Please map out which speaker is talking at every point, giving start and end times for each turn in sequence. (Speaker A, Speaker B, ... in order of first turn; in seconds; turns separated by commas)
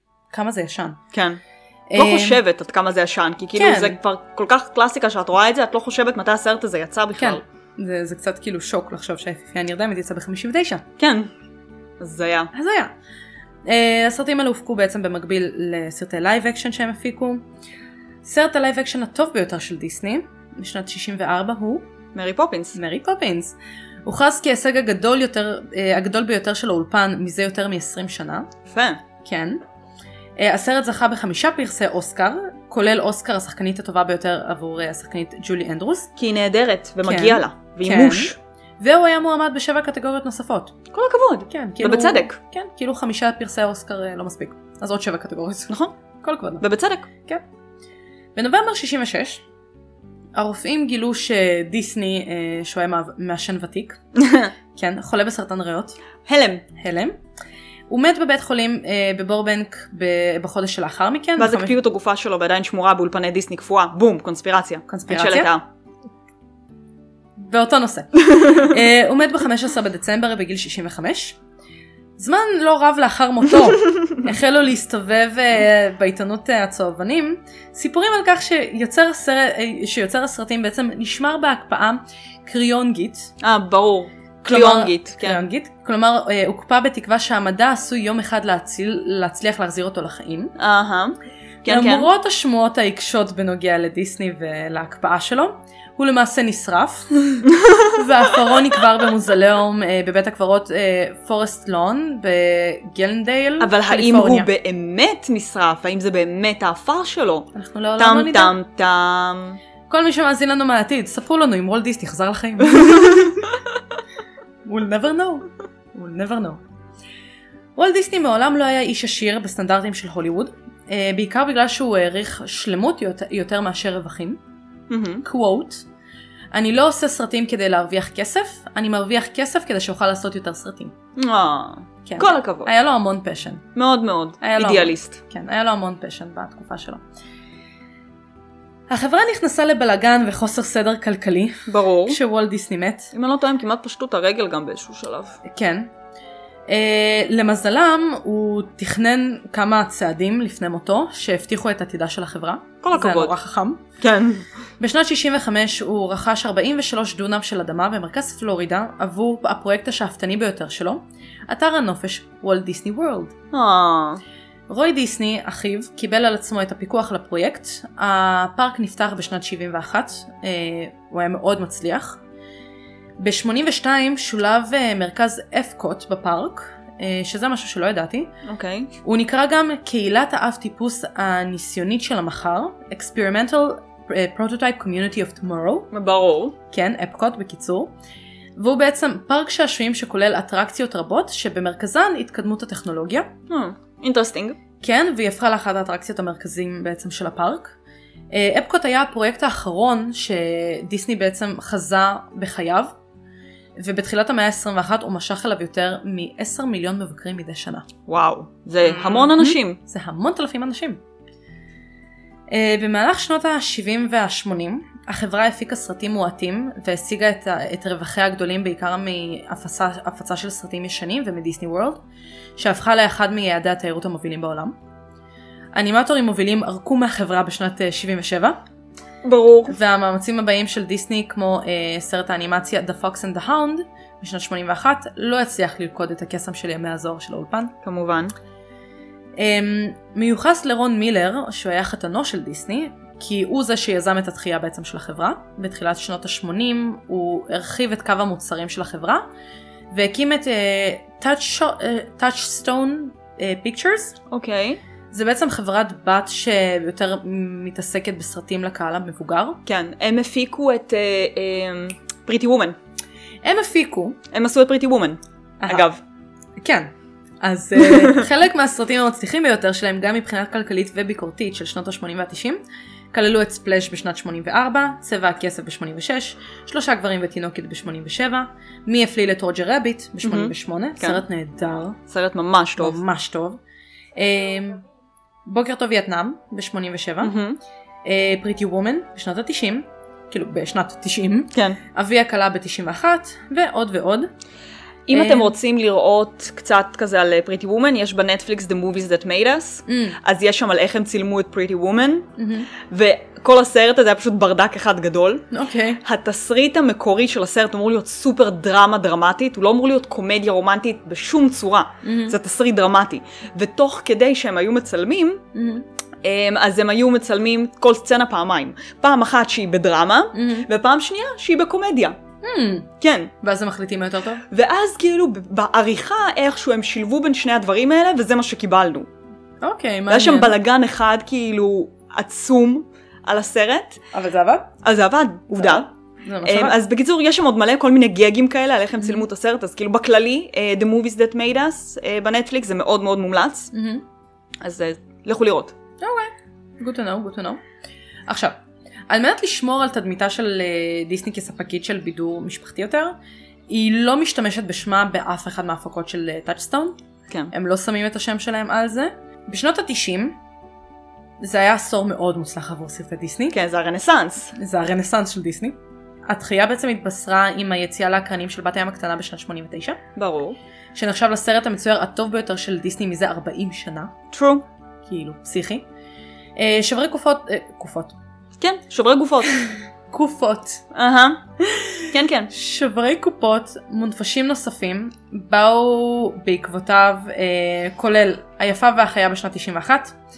Speaker A: 0.3-1.0, Speaker B: 1.1-1.4, Speaker A: 1.9-2.4, Speaker B: 1.9-7.4, Speaker A: 3.5-4.0, Speaker A: 7.2-10.8, Speaker B: 11.0-11.3, Speaker B: 12.0-12.5, Speaker A: 12.5-12.9, Speaker A: 13.6-17.4, Speaker A: 18.2-21.9, Speaker B: 22.1-22.8, Speaker A: 22.7-28.5, Speaker B: 28.7-29.0, Speaker A: 29.2-29.6, Speaker A: 30.4-36.1, Speaker B: 36.2-38.4, Speaker A: 37.0-40.8, Speaker B: 40.9-42.4, Speaker A: 41.5-46.6, Speaker B: 46.6-47.1, Speaker A: 48.3-49.4, Speaker A: 50.3-54.0, Speaker B: 54.1-54.5, Speaker A: 54.7-56.0, Speaker B: 56.2-56.6, Speaker A: 56.7-57.1, Speaker A: 57.9-61.8, Speaker B: 61.4-65.6, Speaker A: 64.9-65.5, Speaker A: 67.4-71.4, Speaker B: 68.3-68.7, Speaker A: 72.2-83.3, Speaker B: 83.4-85.4, Speaker A: 84.4-90.5, Speaker B: 90.6-92.1, Speaker A: 91.7-104.5, Speaker B: 97.5-98.0, Speaker B: 103.6-109.6, Speaker A: 107.5-108.5, Speaker A: 109.9-113.5, Speaker B: 112.7-113.3, Speaker A: 114.7-116.6, Speaker A: 117.8-124.4, Speaker B: 124.9-125.2, Speaker A: 125.2-125.8, Speaker A: 126.5-130.9, Speaker B: 131.2-132.7, Speaker A: 132.1-133.6, Speaker B: 133.7-135.2, Speaker A: 134.4-137.0, Speaker A: 138.9-143.1, Speaker B: 141.7-142.2, Speaker B: 143.1-145.4, Speaker A: 145.4-145.9, Speaker A: 146.7-153.8, Speaker B: 152.8-153.3, Speaker B: 154.0-154.4, Speaker A: 154.8-163.3, Speaker B: 163.5-164.2, Speaker A: 164.7-172.2, Speaker A: 173.2-178.3, Speaker B: 178.4-178.9, Speaker A: 179.0-185.9, Speaker B: 185.9-186.6, Speaker A: 186.7-187.9, Speaker A: 188.6-193.3, Speaker B: 193.5-194.6, Speaker A: 194.8-197.8, Speaker A: 198.3-202.9, Speaker A: 203.8-207.9, Speaker B: 208.1-209.8, Speaker A: 208.8-211.0, Speaker A: 212.5-222.0, Speaker A: 222.6-224.7, Speaker A: 225.7-228.6, Speaker B: 229.2-229.8, Speaker A: 229.7-237.7, Speaker B: 237.8-238.3, Speaker A: 239.4-249.2, Speaker A: 249.9-254.2, Speaker B: 254.3-254.8, Speaker A: 255.1-259.6, Speaker B: 259.6-262.8, Speaker A: 263.4-264.2, Speaker B: 264.3-266.0, Speaker A: 266.6-266.9, Speaker A: 267.4-272.6, Speaker B: 267.8-268.2, Speaker A: 273.1-282.0, Speaker B: 280.2-281.2, Speaker B: 282.1-283.0, Speaker A: 282.8-283.6, Speaker A: 284.1-284.8, Speaker A: 285.4-287.3, Speaker B: 287.2-287.6, Speaker A: 288.0-294.3, Speaker B: 291.5-291.8, Speaker B: 295.1-302.3, Speaker A: 295.1-295.5, Speaker A: 299.9-300.2, Speaker A: 302.4-302.7, Speaker B: 302.8-305.5, Speaker A: 305.5-306.0, Speaker B: 306.0-315.4, Speaker A: 312.0-312.4, Speaker A: 315.5-315.8, Speaker B: 316.2-322.2, Speaker A: 320.3-320.7, Speaker A: 322.4-322.9, Speaker B: 323.0-323.3, Speaker A: 323.4-324.4, Speaker B: 324.5-329.1, Speaker A: 329.6-330.6, Speaker B: 330.1-334.0, Speaker A: 334.1-334.7, Speaker B: 334.8-335.9, Speaker A: 335.6-336.8, Speaker B: 336.4-343.7, Speaker A: 343.7-344.0, Speaker B: 344.6-345.7, Speaker A: 346.0-347.6, Speaker A: 348.3-348.6, Speaker A: 349.1-353.1, Speaker A: 353.7-357.0, Speaker A: 357.5-360.4, Speaker A: 361.4-363.5, Speaker B: 363.5-364.5, Speaker A: 364.5-370.0, Speaker B: 370.1-370.6, Speaker A: 370.9-374.1, Speaker B: 374.3-374.6, Speaker A: 375.1-375.8, Speaker A: 376.6-378.1, Speaker B: 378.6-379.6, Speaker A: 380.1-380.8, Speaker B: 380.9-382.5, Speaker A: 381.9-390.1